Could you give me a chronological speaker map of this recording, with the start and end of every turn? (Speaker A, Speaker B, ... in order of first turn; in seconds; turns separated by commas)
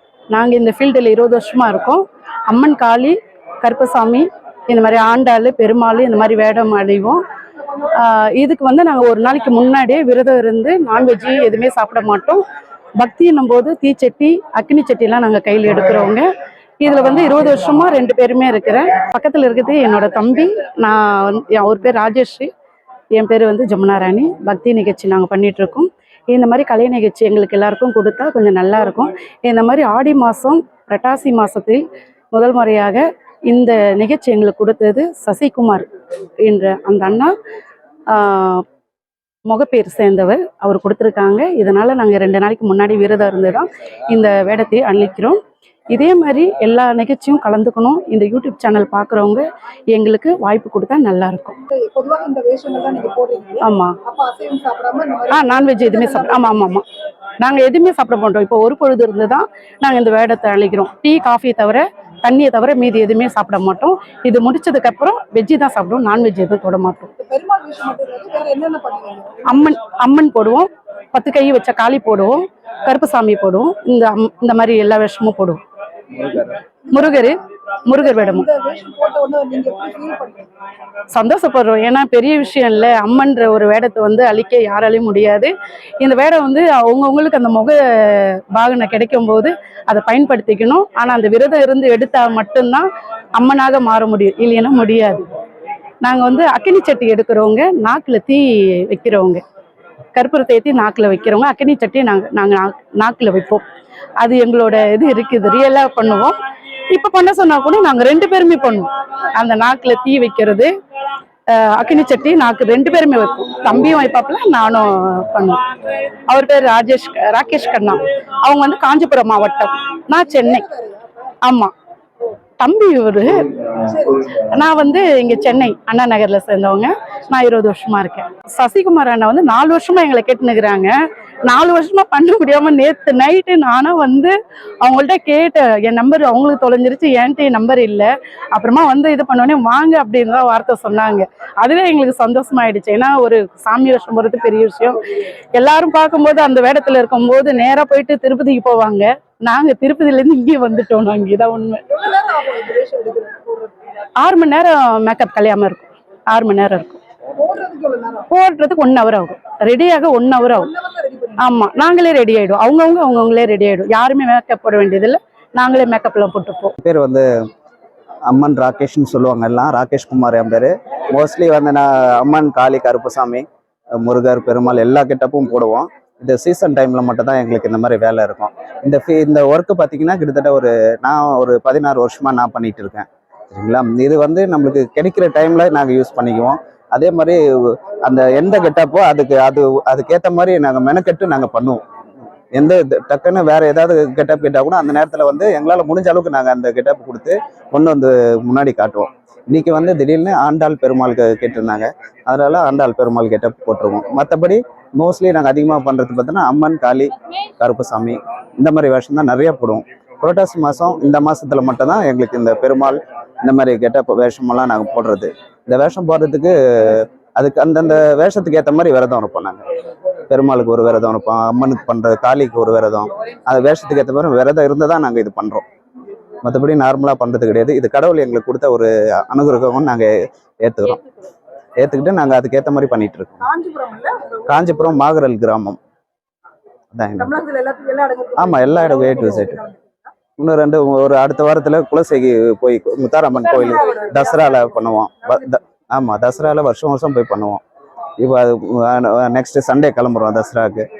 Speaker A: 0.3-7.2, Speaker A: 7.9-12.4, Speaker A: 13.0-16.3, Speaker A: 16.8-22.5, Speaker A: 23.1-35.9, Speaker A: 36.4-37.3, Speaker A: 38.1-38.6, Speaker A: 39.5-45.4, Speaker A: 45.9-51.6, Speaker B: 51.7-56.5, Speaker A: 53.6-54.0, Speaker A: 55.3-56.8, Speaker A: 57.4-67.1, Speaker B: 67.2-69.4, Speaker A: 69.4-75.6, Speaker A: 76.9-78.5, Speaker B: 77.9-80.5, Speaker A: 81.1-95.3, Speaker A: 96.0-99.4, Speaker A: 100.1-103.6, Speaker A: 104.2-106.3, Speaker A: 106.9-110.7, Speaker A: 111.5-115.7, Speaker A: 116.3-120.6, Speaker B: 120.3-121.1, Speaker A: 121.4-121.7, Speaker A: 122.6-123.4, Speaker B: 123.9-124.3, Speaker A: 124.3-151.8, Speaker B: 151.9-153.7, Speaker A: 154.2-157.0, Speaker B: 157.4-158.3, Speaker A: 158.3-160.7, Speaker B: 160.6-161.4, Speaker A: 161.4-166.7, Speaker C: 166.8-167.2, Speaker C: 168.3-173.4, Speaker C: 174.0-191.8, Speaker C: 192.5-219.6, Speaker C: 220.3-225.6, Speaker C: 226.4-230.1, Speaker C: 230.6-231.0, Speaker C: 231.8-233.4, Speaker B: 233.4-234.6, Speaker C: 234.5-235.8, Speaker C: 236.9-237.3, Speaker B: 237.2-240.1, Speaker C: 238.4-239.6, Speaker C: 240.4-247.6, Speaker B: 243.4-244.7, Speaker C: 248.2-250.9